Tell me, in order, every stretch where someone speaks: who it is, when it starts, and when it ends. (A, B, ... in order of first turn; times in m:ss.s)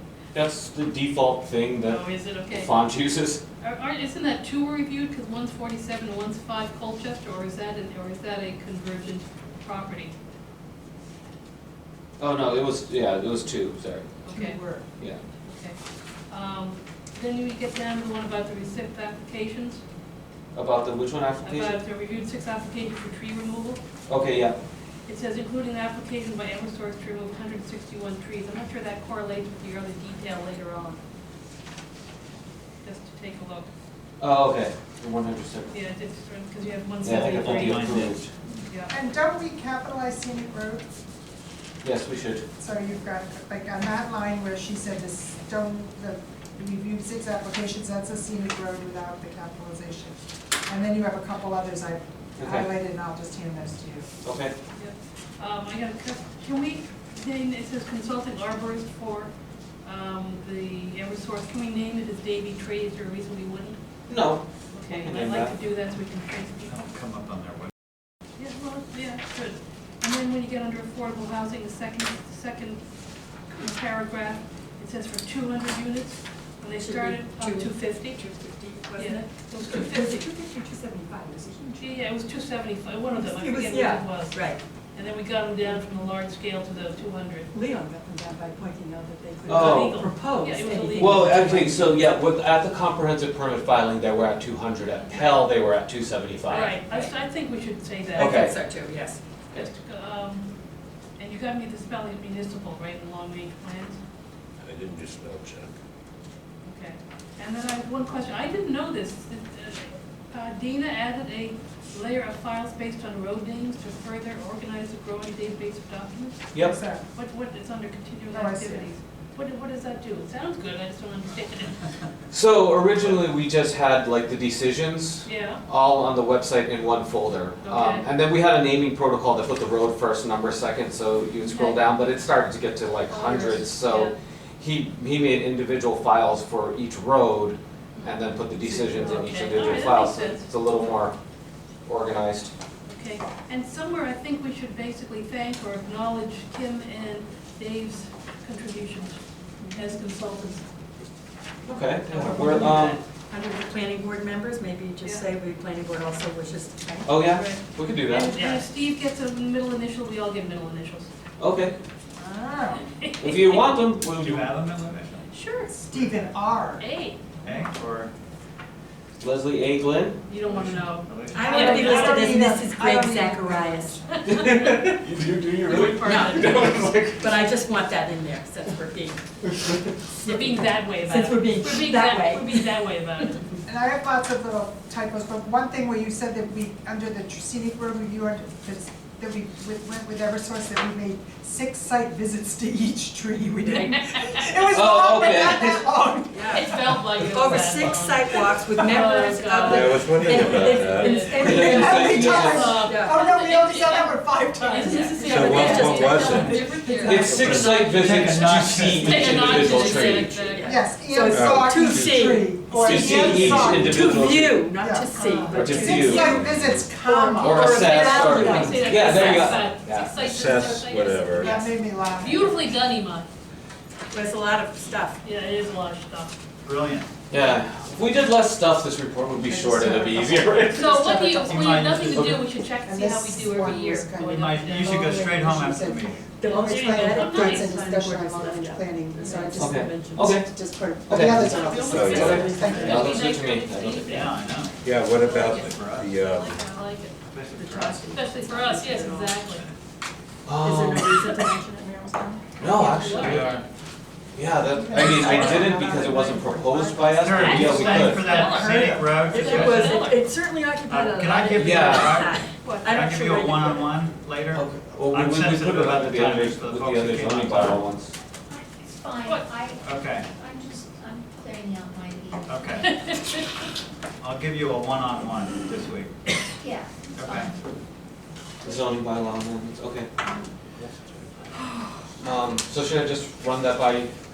0:00.3-0:03.4 A
0:01.8-0:02.7 B
0:03.6-0:10.1 B
0:12.2-0:14.2 A
0:14.2-0:14.6 B
0:14.3-0:14.8 C
0:15.4-0:15.8 B
0:16.3-0:19.8 B
0:20.5-0:21.8 A
0:21.4-0:23.8 B
0:24.1-0:24.6 A
0:25.1-0:31.0 B
0:32.8-0:33.7 B
0:34.2-0:35.8 A
0:35.7-0:38.1 B
0:37.0-0:38.3 A
0:37.1-0:38.2 D
0:38.7-0:38.9 B
0:38.9-0:40.8 C
0:41.8-0:42.4 A
0:42.6-0:54.1 C
0:52.4-0:52.7 A
0:54.2-0:54.5 A
0:54.7-0:59.3 B
0:59.8-1:03.8 B
1:04.1-1:05.6 A
1:04.7-1:06.7 B
1:06.6-1:07.7 D
1:08.4-1:12.8 B
1:13.5-1:18.2 B
1:16.8-1:22.0 E
1:19.0-1:20.2 B
1:21.8-1:24.4 B
1:23.1-1:24.6 E
1:24.9-1:27.5 B
1:27.5-1:32.0 E
1:29.5-1:30.1 A
1:29.5-1:31.5 B
1:30.9-1:36.8 A
1:36.5-1:38.5 B
1:38.1-1:38.7 A
1:38.2-1:39.2 E
1:39.5-1:40.5 B
1:41.2-1:44.0 B
1:44.6-1:45.7 F
1:46.6-1:56.4 B
1:56.5-1:56.8 A
1:56.6-1:57.0 C
1:57.1-2:01.8 B
1:58.3-1:58.9 C
2:02.3-2:21.1 A
2:05.2-2:05.6 B
2:07.6-2:08.1 B
2:11.4-2:11.8 B
2:13.1-2:14.1 B
2:18.7-2:20.5 B
2:21.8-2:22.5 A
2:22.8-2:29.2 B
2:29.6-2:30.0 E
2:29.7-2:30.6 B
2:31.6-2:33.0 A
2:32.1-2:37.2 E
2:32.3-2:32.9 B
2:37.0-2:38.4 A
2:37.3-2:41.1 B
2:38.3-2:38.6 E
2:41.4-2:41.8 A
2:42.2-2:42.8 C
2:43.0-2:43.7 B
2:43.2-2:44.6 A
2:44.1-2:45.3 D
2:45.3-2:45.7 E
2:45.8-2:46.9 C
2:45.8-2:46.3 D
2:46.8-2:47.2 B
2:47.4-2:48.1 D
2:49.2-2:50.2 A
2:50.3-2:52.4 B
2:50.4-2:52.0 D
2:51.3-2:54.0 E
2:51.5-2:54.0 C
2:54.2-2:54.9 B
2:54.2-2:57.5 A
2:55.6-2:56.9 B
2:56.0-2:59.2 E
3:00.2-3:02.7 E
3:00.2-3:03.4 B
3:03.6-3:17.2 C
3:14.1-3:14.4 B
3:14.7-3:15.9 A
3:16.3-3:23.2 E
3:16.5-3:30.8 B
3:19.7-3:21.2 F
3:21.3-3:22.7 A
3:21.4-3:27.4 C
3:24.8-3:27.3 E
3:25.3-3:26.5 F
3:27.0-3:30.3 A
3:27.6-3:29.8 D
3:29.7-3:39.5 E
3:30.6-3:38.9 C
3:31.3-3:32.2 F
3:32.8-3:34.7 A
3:33.4-3:34.1 F
3:35.0-3:36.2 B
3:35.5-3:36.4 A
3:36.3-3:36.9 F
3:37.4-3:40.1 A
3:37.8-3:43.3 B
3:40.1-3:41.5 F
3:41.3-3:42.9 C
3:41.4-3:41.8 E
3:44.1-3:45.2 E
3:45.2-3:46.4 B
3:46.6-3:47.1 D
3:47.3-3:51.1 A
3:49.5-4:03.1 C
3:50.7-3:55.0 B
3:51.5-3:52.4 D
3:52.1-3:52.5 A
3:54.2-3:56.2 D
3:54.9-3:55.1 E
3:56.4-4:00.4 E
3:56.4-3:58.0 B
3:59.6-4:00.5 A
4:01.0-4:04.4 A
4:01.4-4:07.2 B
4:01.8-4:03.1 E
4:01.9-4:02.4 F
4:04.0-4:06.1 D
4:04.8-4:06.6 F
4:07.2-4:08.2 D
4:07.5-4:09.3 E
4:08.1-4:09.6 B
4:09.4-4:09.7 D
4:10.4-4:11.4 A
4:10.6-4:13.5 E
4:12.6-4:13.6 A
4:13.0-4:13.6 B
4:14.3-4:18.6 A
4:14.6-4:19.1 C
4:15.2-4:15.7 D
4:17.2-4:20.1 D
4:17.4-4:18.0 E
4:17.8-4:20.2 B
4:19.2-4:24.0 E
4:20.9-4:27.8 D
4:21.5-4:22.2 A
4:22.6-4:22.9 B
4:24.5-4:28.1 A
4:28.5-4:29.8 G
4:29.0-4:29.8 F
4:29.2-4:29.5 B
4:29.8-4:30.2 D
4:30.3-4:32.8 G
4:30.7-4:31.3 F
4:32.5-4:32.9 D
4:32.8-4:33.4 B
4:34.2-4:36.3 D
4:36.6-4:36.9 F
4:37.1-4:37.5 D
4:38.6-4:40.1 A
4:40.8-4:41.4 A
4:42.2-4:44.1 A